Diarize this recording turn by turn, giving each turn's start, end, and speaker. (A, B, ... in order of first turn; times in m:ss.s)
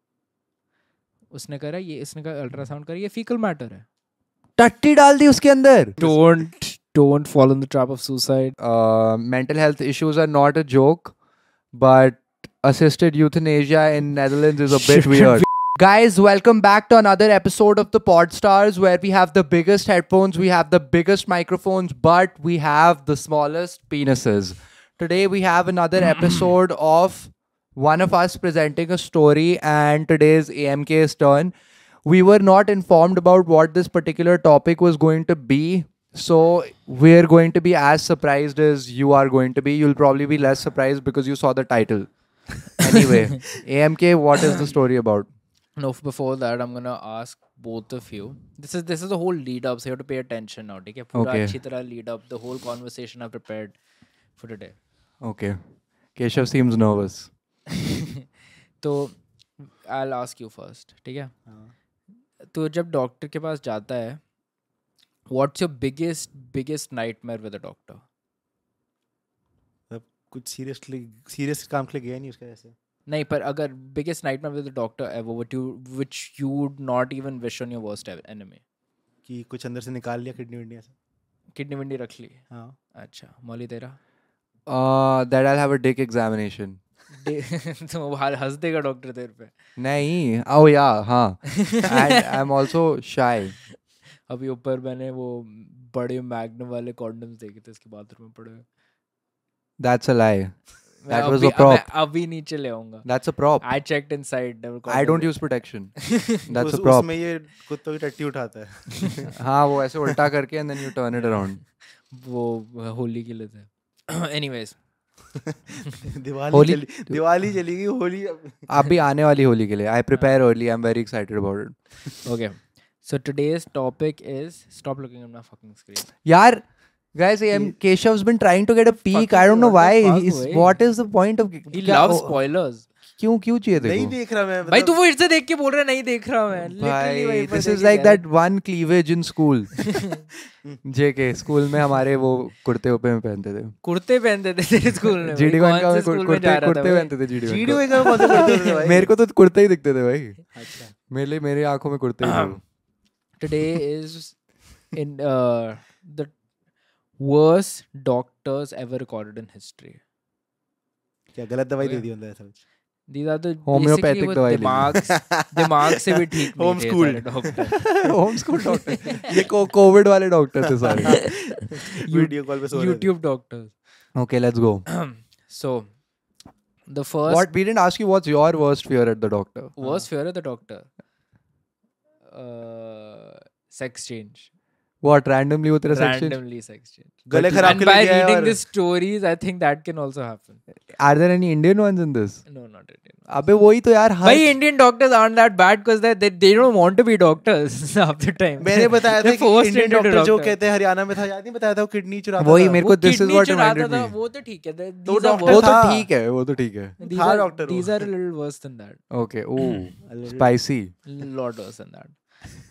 0:01.3-0:03.8 A
0:04.6-0:06.0 B
0:06.0-0:08.6 A
0:08.6-0:11.1 B
0:11.7-0:31.5 B
0:14.7-0:15.4 A
0:32.0-0:45.3 B
0:45.8-0:53.7 A
0:51.1-0:51.5 B
0:54.4-0:54.8 A
0:55.2-0:55.6 B
0:56.2-0:57.3 B
0:57.7-0:58.2 A
0:58.8-1:01.3 A
1:01.5-1:01.7 C
1:02.5-1:04.2 A
1:05.3-1:08.0 A
1:09.9-1:12.7 C
1:13.1-1:18.6 A
1:19.2-1:20.9 C
1:21.5-1:22.4 A
1:22.9-1:24.0 A
1:24.7-1:26.8 B
1:27.1-1:29.5 A
1:29.8-1:33.5 B
1:31.7-1:32.2 A
1:34.3-1:38.6 A
1:39.8-1:41.9 B
1:41.0-1:43.0 A
1:43.0-1:43.6 B
1:43.6-1:45.4 A
1:44.9-1:47.1 B
1:46.0-1:46.4 A
1:46.5-1:49.3 C
1:49.3-1:51.6 B
1:51.1-1:51.4 A
1:52.1-1:54.8 A
1:55.7-1:58.7 C
1:56.5-1:57.2 B
1:58.7-2:01.7 B
2:02.2-2:06.1 A
2:06.2-2:12.4 B
2:09.1-2:10.8 A
2:11.7-2:12.9 A
2:13.2-2:14.1 B
2:13.7-2:14.9 C
2:14.7-2:18.2 A
2:16.8-2:19.7 B
2:20.8-2:23.7 B
2:23.8-2:27.1 A
2:25.2-2:30.4 B
2:27.4-2:29.1 C
2:30.5-2:30.9 C
2:31.1-2:32.6 B
2:32.2-2:32.6 A
2:33.4-2:34.4 A
2:34.9-2:36.3 A
2:37.2-2:40.0 A
2:41.3-2:42.6 C
2:43.1-2:47.8 A
2:43.6-2:45.0 B
2:45.1-2:45.6 C
2:46.5-2:48.0 C
2:48.0-2:51.3 B
2:48.6-2:49.2 A
2:49.1-2:49.5 C
2:50.7-2:53.1 C
2:52.0-2:53.7 A
2:54.2-2:54.8 B
2:54.9-2:55.9 A
2:56.9-2:57.5 A
2:57.3-2:59.7 B
2:59.8-3:00.9 A
2:59.8-3:00.0 C
3:02.3-3:04.5 A
3:05.0-3:06.4 B
3:05.9-3:10.6 A
3:07.3-3:08.6 C
3:07.3-3:07.9 B
3:11.0-3:12.4 B
3:12.5-3:13.3 A
3:13.3-3:14.5 B
3:14.2-3:20.5 A
3:18.6-3:22.8 C
3:22.4-3:24.1 B
3:22.8-3:25.8 A
3:25.1-3:26.1 C
3:25.4-3:27.0 B
3:27.0-3:29.0 A
3:27.0-3:28.0 C
3:29.1-3:30.9 B
3:30.0-3:30.5 C
3:31.0-3:32.2 A